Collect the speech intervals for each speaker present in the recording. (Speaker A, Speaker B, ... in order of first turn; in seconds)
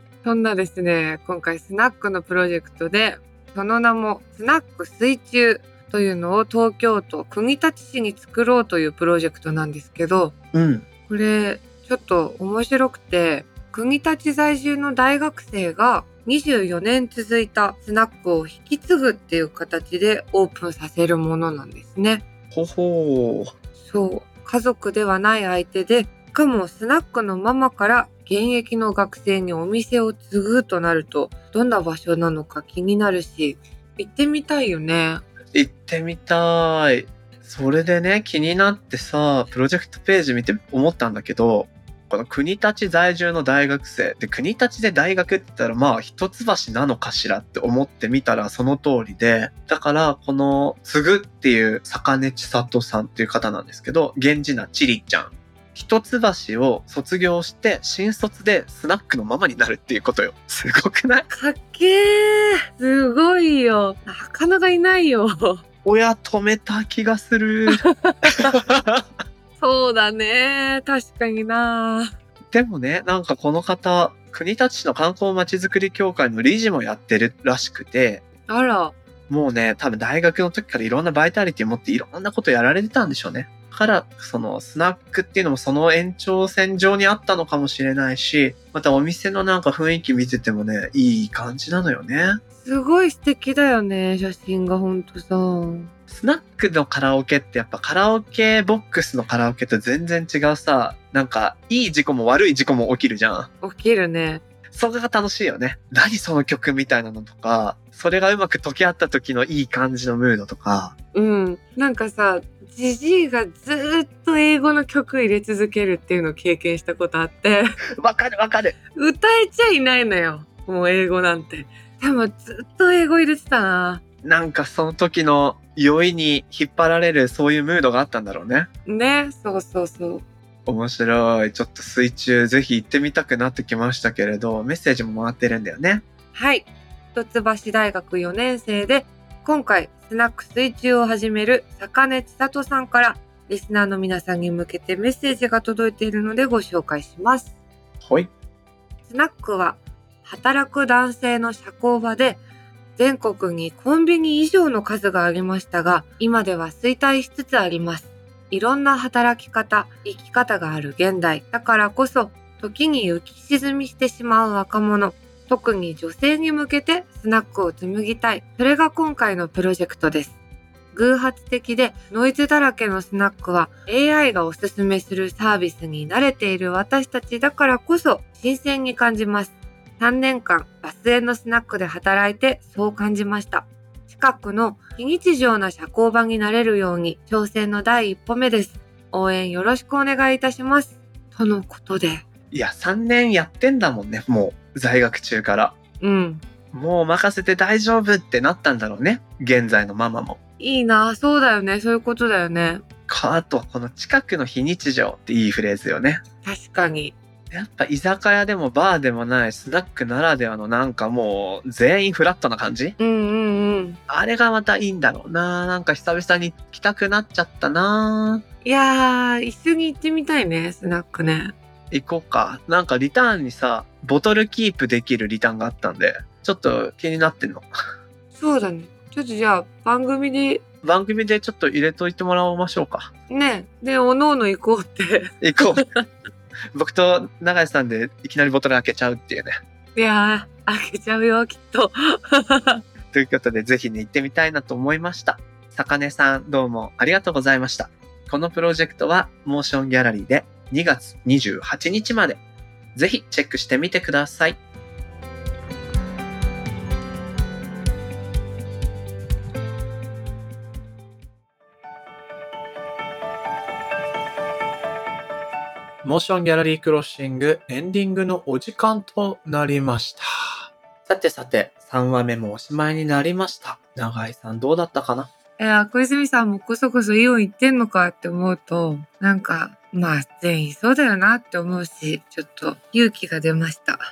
Speaker A: 0.2-10.3, 11.1-22.2, 23.9-35.2, 61.3-65.6, 67.7-68.3, 69.6-72.1, 78.5-79.0, 92.6-95.9, 103.6-104.4, 111.1-117.8, 119.0-124.0, 128.9-130.2, 136.3-147.5, 149.1-152.4, 153.0-170.3, 170.9-192.2, 196.0-196.4, 200.6-202.8, 206.4-207.2, 213.0-214.0, 218.6-221.5, 228.3-230.6, 233.3-236.0, 240.0-242.8, 275.6-284.0
Speaker B: 10.5-10.9, 22.5-23.5, 35.5-61.3, 65.8-69.1, 72.5-78.2, 79.3-92.4, 96.1-103.5, 104.7-110.9, 118.0-118.8, 124.2-128.7, 130.7-136.0, 148.0-148.3, 192.5-195.8, 196.7-200.4, 203.1-206.2, 207.5-213.0, 214.1-218.4, 221.9-227.7, 230.8-233.1, 235.4-235.9, 236.7-239.6, 243.1-252.4, 252.9-254.6, 266.0-275.3